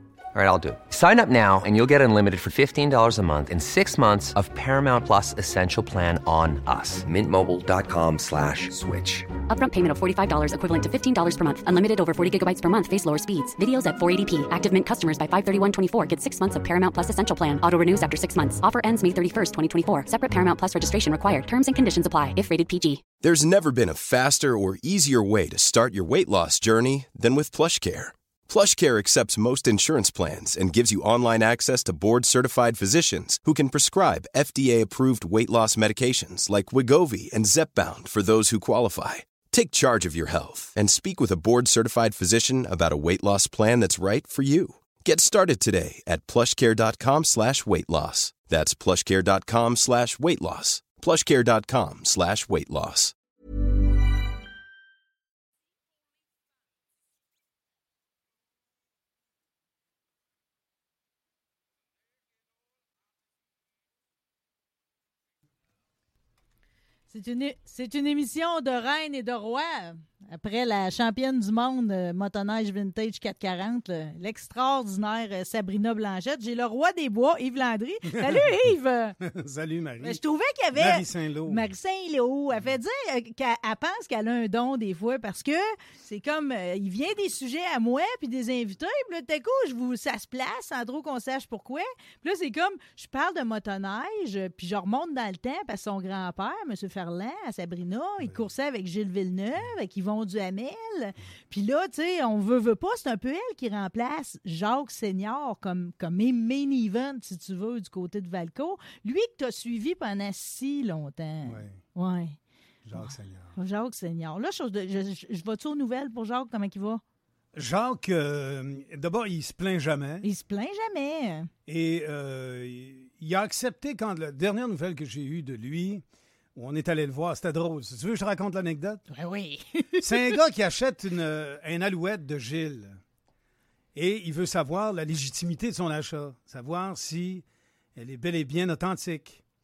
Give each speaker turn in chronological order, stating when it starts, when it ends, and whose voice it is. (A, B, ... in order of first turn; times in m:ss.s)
0:00.3-0:09.3 A
0:09.5-0:23.0 B
0:23.2-0:53.1 C
1:07.1-1:19.2 D
1:18.1-1:18.5 E
1:19.2-1:20.2 E
1:20.0-1:52.4 D
1:20.7-1:21.7 E
1:51.4-1:51.8 E
1:52.8-1:53.6 E
1:53.0-1:57.0 D
1:57.6-2:00.3 E
2:00.2-2:01.5 D
2:01.7-2:06.0 E
2:06.6-2:09.0 E
2:09.1-2:10.4 D
2:10.0-2:13.0 E
2:14.0-2:17.4 E
2:18.0-2:19.4 E